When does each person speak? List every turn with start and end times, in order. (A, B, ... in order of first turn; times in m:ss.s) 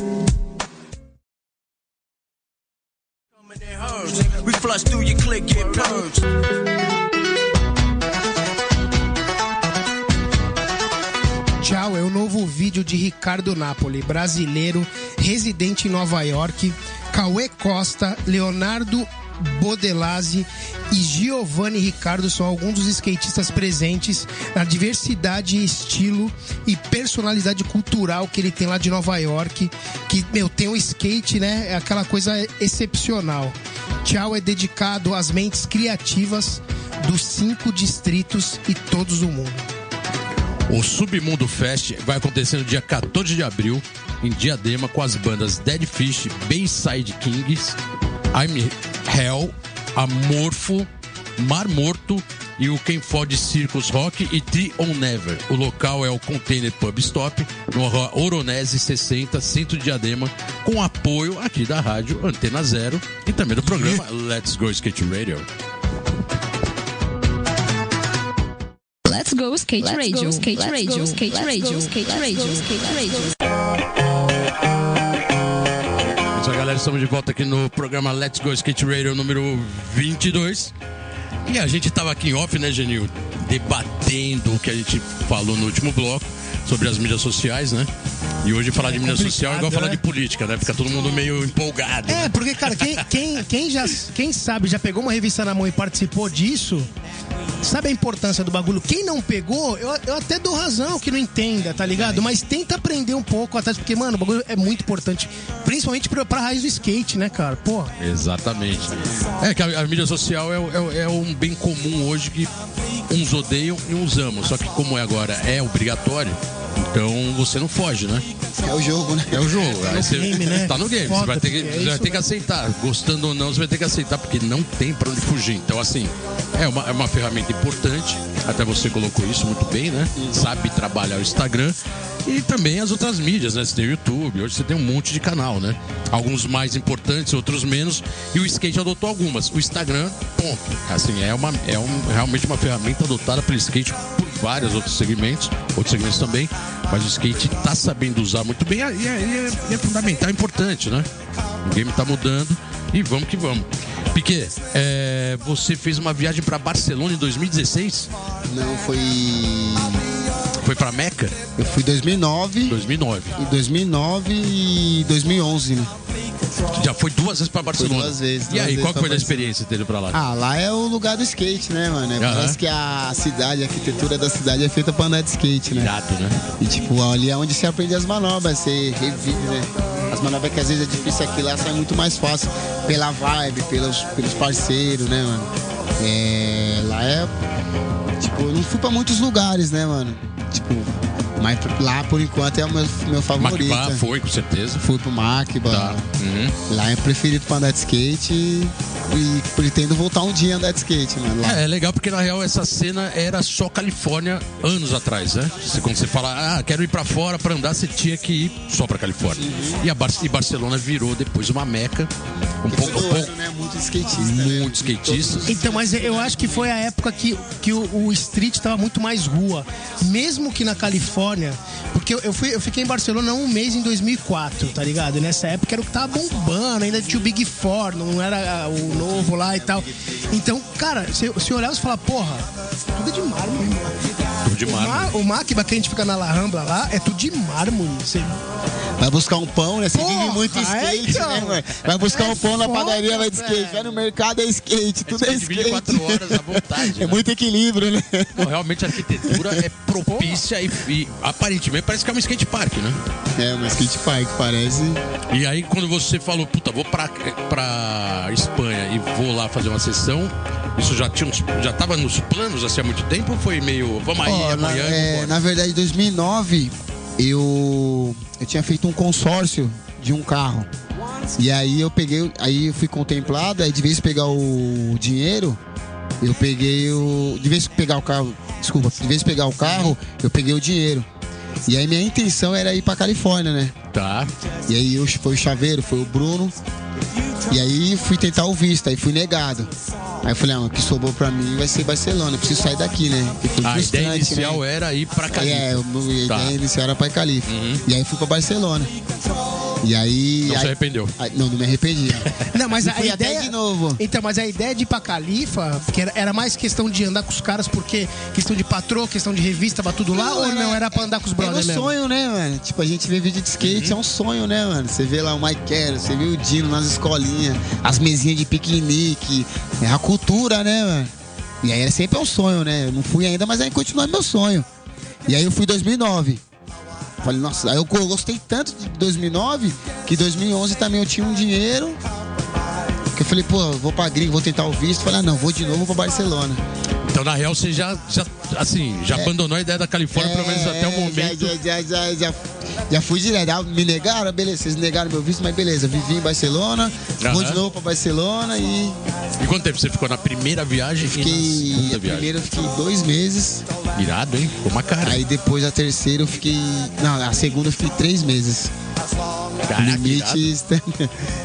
0:03.4-0:06.3 A
0:11.6-0:39.6 B
0:40.7-0:47.8 C
0:48.3-1:05.5 C
1:09.1-1:13.3 D
1:16.3-1:20.7 C
1:21.5-1:27.9 C
1:28.4-1:33.0 C
1:28.8-1:30.0 B
1:32.1-1:36.9 B
1:37.6-1:47.9 B
1:41.9-1:42.3 C
1:48.0-1:52.5 C
1:53.1-1:58.3 C
1:58.6-1:59.7 E
1:59.3-2:31.1 C
1:59.8-2:02.2 B
2:10.2-2:10.4 E
2:31.6-2:38.1 C
2:38.5-2:40.0 E
2:40.6-2:41.4 C
2:41.6-2:42.8 E
2:42.7-2:43.4 C
2:43.4-2:45.9 E
2:46.7-2:50.2 C
2:47.7-2:49.5 E
2:50.1-2:55.9 E
2:52.2-2:52.6 C
2:55.7-2:56.4 C
2:56.6-3:07.4 E
3:08.2-3:14.0 E
3:13.4-3:14.8 C
3:14.8-3:16.0 E
3:15.7-3:16.6 C
3:16.7-3:21.6 E
3:21.4-3:32.1 C
3:29.4-3:29.9 E
3:32.6-3:33.3 C
3:32.7-3:36.7 E
3:34.2-3:35.5 C
3:35.5-3:54.0 B
3:48.8-3:50.3 E
3:54.4-3:55.1 C
3:54.6-3:58.4 B
3:59.0-4:08.5 E
3:59.9-4:03.9 B
4:05.1-4:07.2 C
4:08.4-4:13.0 C
4:09.2-4:09.6 E
4:10.1-4:10.4 B
4:13.4-4:15.0 E
4:15.3-4:25.4 C
4:24.2-4:30.7 E
4:31.4-4:35.6 E
4:36.2-4:41.1 E
4:39.6-4:40.0 C
4:41.6-4:43.8 E
4:43.9-4:44.3 C
4:44.7-4:46.6 E
4:47.5-4:49.7 E
4:50.2-4:54.6 E
4:53.6-4:56.6 C
4:55.3-4:58.9 E
4:57.5-4:57.8 C
4:59.8-5:04.0 E
5:00.4-5:01.1 C
5:02.5-5:11.9 B
5:10.1-5:24.7 E
5:13.6-5:14.0 C
5:25.3-5:26.4 E
5:27.2-5:32.0 E
5:33.1-5:36.6 E
5:37.1-5:41.6 C
5:40.1-5:49.0 E
5:47.2-5:47.6 C
5:49.4-5:52.3 C
5:51.0-5:53.6 E
5:54.0-5:55.2 C
5:55.0-5:58.7 E
5:59.7-6:00.5 C
5:59.8-6:01.3 E